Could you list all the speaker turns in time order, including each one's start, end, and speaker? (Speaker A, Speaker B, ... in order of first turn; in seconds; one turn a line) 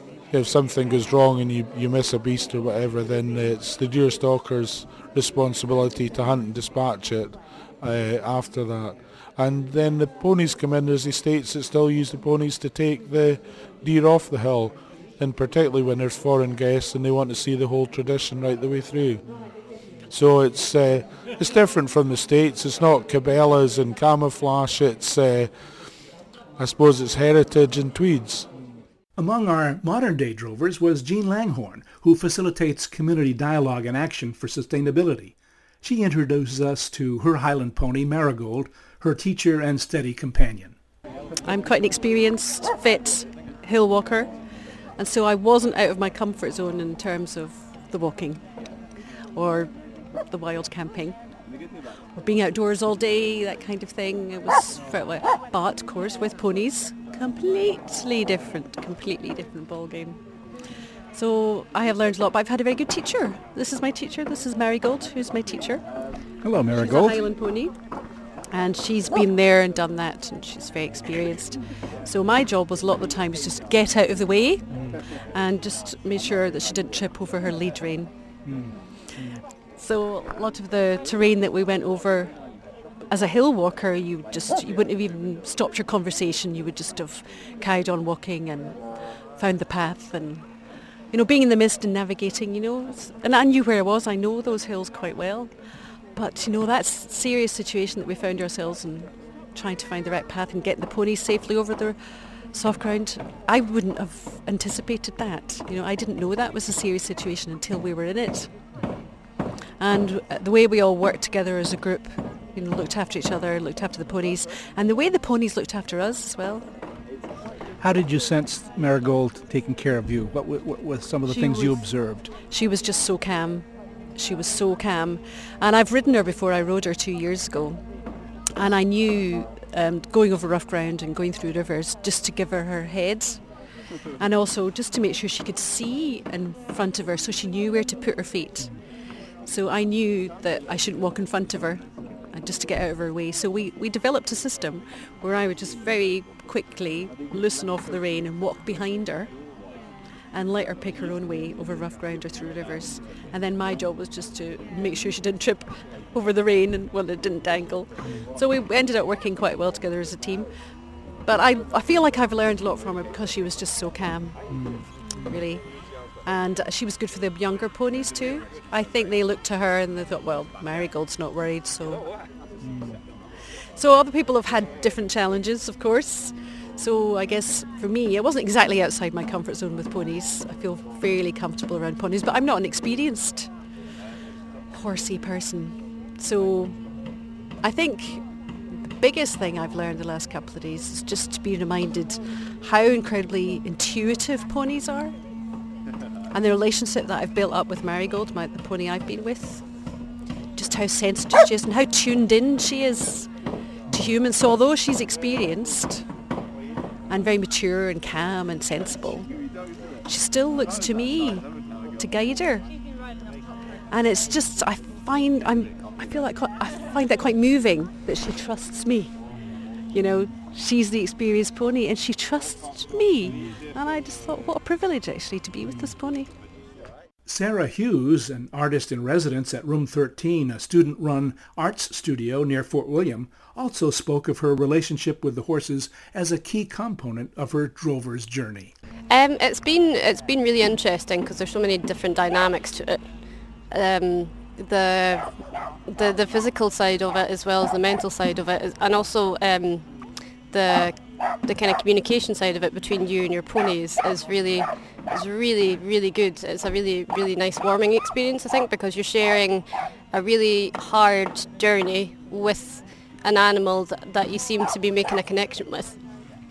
Speaker A: 0.3-19.2
Speaker A: 20.1-25.5
Speaker A: 26.6-28.5
Speaker B: 29.2-40.8
Speaker C: 41.4-44.3
Speaker C: 45.0-48.4
Speaker C: 49.3-49.7
Speaker C: 50.2-51.1
Speaker C: 52.1-60.2
Speaker C: 61.1-65.8
Speaker B: 66.4-67.2
Speaker C: 66.7-67.8
Speaker C: 68.5-78.1
Speaker B: 74.7-75.0
Speaker B: 78.4-79.4
Speaker C: 79.2-82.4
Speaker C: 83.1-88.8
Speaker C: 89.3-90.5
Speaker C: 91.1-95.6
Speaker C: 96.1-102.0
Speaker C: 102.5-108.5
Speaker C: 109.8-116.7
Speaker B: 117.8-122.3
Speaker C: 121.3-121.9
Speaker C: 122.5-127.8
Speaker C: 128.6-133.4
Speaker C: 134.2-138.8
Speaker C: 139.4-149.3
Speaker C: 150.3-160.5
Speaker C: 161.2-164.5
Speaker B: 164.5-165.4
Speaker C: 165.1-165.7
Speaker C: 166.2-172.1
Speaker B: 172.6-173.0
Speaker C: 173.7-183.5
Speaker C: 184.7-186.8
Speaker C: 187.6-188.3
Speaker C: 188.9-195.2
Speaker C: 196.3-199.7
Speaker C: 200.5-203.3
Speaker C: 203.9-206.0
Speaker C: 207.1-209.3
Speaker C: 210.0-212.7
Speaker C: 213.9-219.2
Speaker C: 219.9-226.3
Speaker B: 227.2-238.7
Speaker D: 239.1-249.9
Speaker D: 250.5-266.0